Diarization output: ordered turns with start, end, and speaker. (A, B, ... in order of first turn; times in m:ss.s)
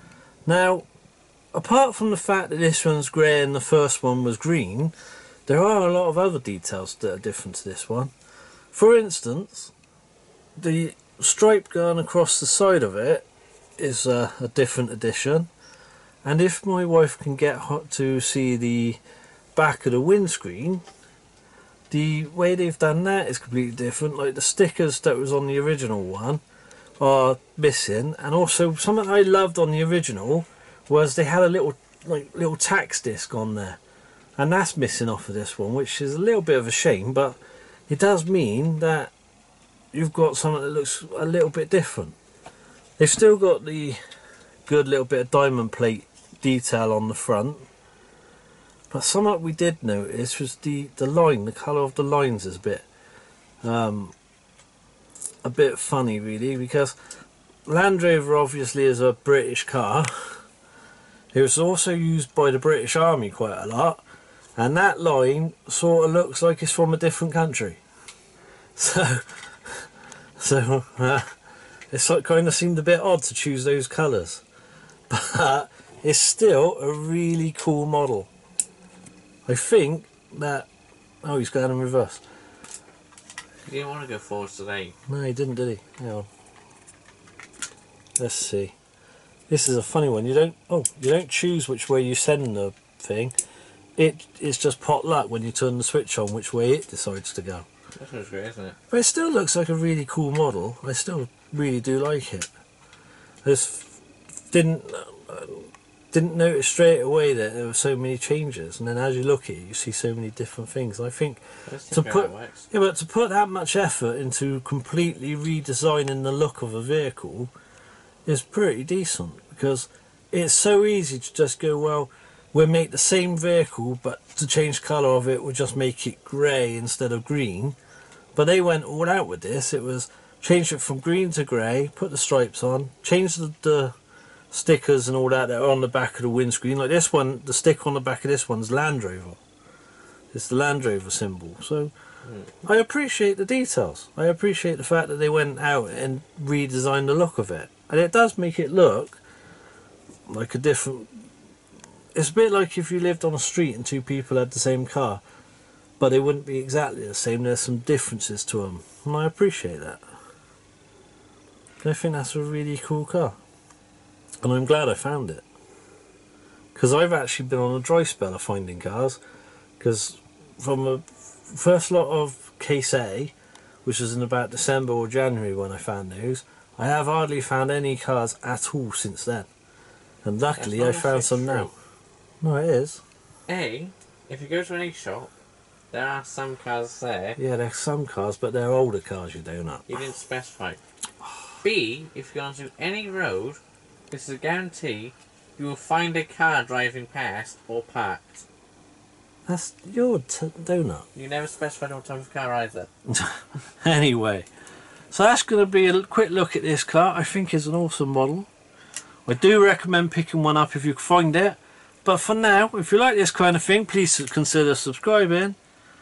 0:00.5-0:00.9 A
0:01.5-0:04.9 A
0:05.5-0:08.1 A
0:08.7-0:09.7 A
0:10.6-0:13.3 A
0:13.8-0:15.5 A
0:16.2-0:19.0 A
0:19.6-0:20.8 A
0:21.9-0:26.4 A
0:27.0-0:33.8 A
0:34.4-0:37.4 A
0:37.9-0:39.1 A
0:39.9-0:42.2 A
0:43.0-0:44.0 A
0:44.7-0:47.7 A
0:48.9-0:52.9 A
0:53.6-0:54.2 A
0:55.4-0:57.0 A
0:57.7-1:00.4 A
1:01.3-1:04.0 A
1:04.6-1:07.8 A
1:08.8-1:09.9 A
1:10.4-1:11.3 A
1:11.9-1:14.4 A
1:15.1-1:18.3 A
1:19.5-1:20.7 A
1:21.2-1:22.2 A
1:23.7-1:25.0 B
1:25.1-1:26.3 A
1:28.2-1:28.8 A
1:29.5-1:33.3 A
1:34.0-1:37.7 A
1:38.0-1:38.8 B
1:38.9-1:42.5 A
1:43.4-1:44.0 A
1:44.5-1:57.5 A
1:51.7-1:52.7 B
1:58.3-2:07.8 A
2:08.4-2:13.9 A
2:14.5-2:19.4 A
2:20.3-2:21.9 A
2:22.2-2:22.5 B
2:22.6-2:29.2 A
2:30.3-2:31.2 A
2:32.2-2:35.2 A
2:36.0-2:40.0 A
2:41.8-2:43.4 A
2:44.4-2:45.4 A
2:46.8-2:49.2 A
2:49.8-2:53.3 A
2:53.8-2:59.5 A
3:00.2-3:01.7 A
3:00.6-3:01.7 B
3:02.4-3:03.0 A
3:03.5-3:05.3 B
3:05.9-3:07.4 B
3:07.4-3:10.0 A
3:09.9-3:10.8 B
3:11.6-3:18.5 B
3:19.5-3:21.1 A
3:21.2-3:22.9 B
3:23.1-3:24.5 A
3:25.1-3:28.5 A
3:29.3-3:35.6 A